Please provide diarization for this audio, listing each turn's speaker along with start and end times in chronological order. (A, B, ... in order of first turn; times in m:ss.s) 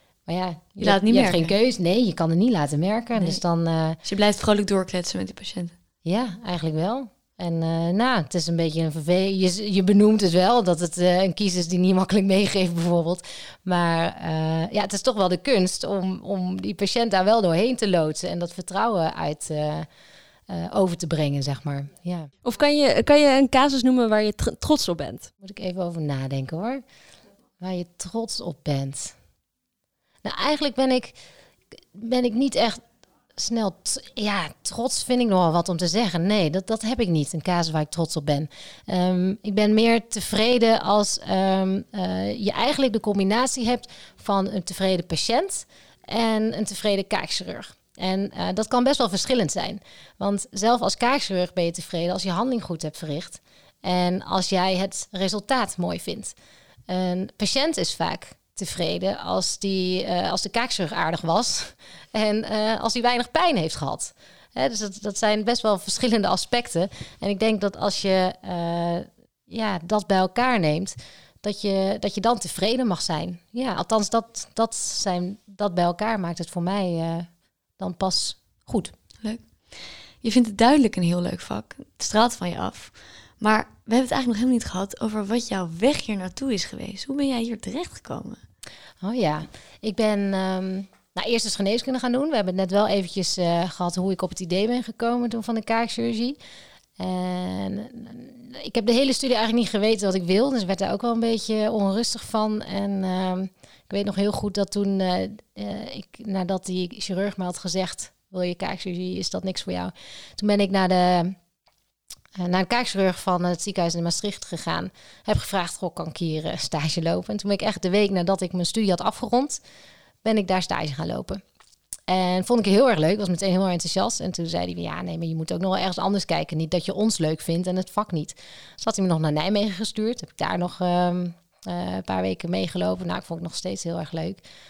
0:00.3-0:04.0 A
0:00.8-0:01.5 B
0:04.0-0:05.7 B
0:06.0-0:19.9 A
0:20.5-0:22.3 A
0:22.4-0:25.3 C
0:25.4-0:26.8 A
0:27.6-0:29.1 A
0:30.2-0:31.2 A
0:31.9-0:32.8 A
0:33.3-0:56.4 A
0:56.9-1:18.9 A
1:19.2-1:28.4 B
1:29.0-1:36.4 A
1:37.0-1:51.4 A
1:52.4-1:59.6 A
2:00.2-2:01.4 A
2:02.1-2:14.4 A